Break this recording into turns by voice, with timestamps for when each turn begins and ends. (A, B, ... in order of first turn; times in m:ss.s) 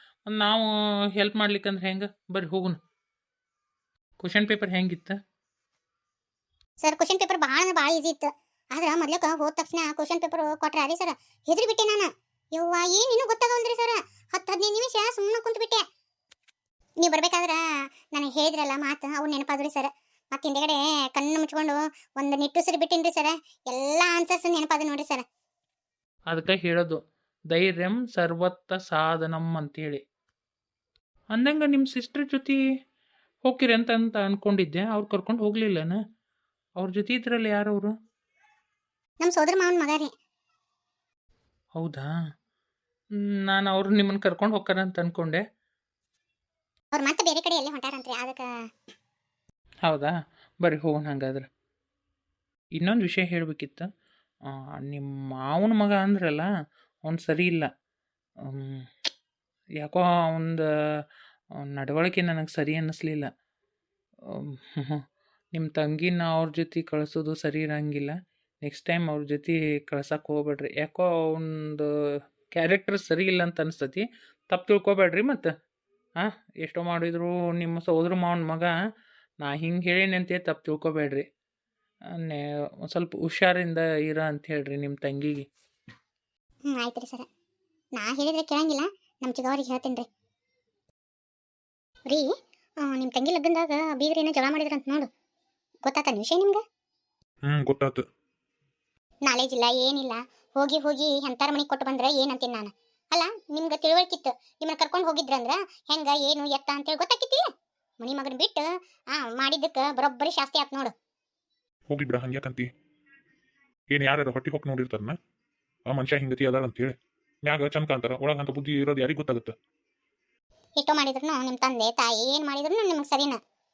0:00.3-0:02.8 A
0:04.2-0:05.2 A
0:06.8-0:15.8 B
0:17.0-0:25.2 B
0:26.3-0:27.0 A
0:27.5-0:30.0 A
0:31.3-0:32.6 A
0:33.4-0:36.0 A
0:36.8-0:37.9 A
0:39.2-0:40.1 B
0:41.8-0:42.1 A
0:43.4-0:45.4 A
0:46.9-0:48.5 B
0:49.9-0:51.4 A
0:52.8-0:53.9 A
0:54.8-0:56.5 A
0:57.1-0:57.7 A
0:58.5-0:58.8 A
0:59.8-1:00.7 A
1:01.6-1:03.3 A
1:04.3-1:05.0 A
1:05.6-1:11.9 A
1:12.5-1:15.5 A
1:16.2-1:18.7 A
1:19.4-1:21.2 A
1:22.2-1:25.5 A
1:26.7-1:27.3 B
1:28.0-1:30.1 B
1:32.1-1:35.1 B
1:35.9-1:36.6 B
1:37.4-1:38.0 C
1:39.3-1:47.4 B
1:48.0-1:50.9 B
1:51.9-1:52.7 C
1:53.9-1:55.2 C
1:55.9-1:59.5 C
2:00.8-2:03.4 B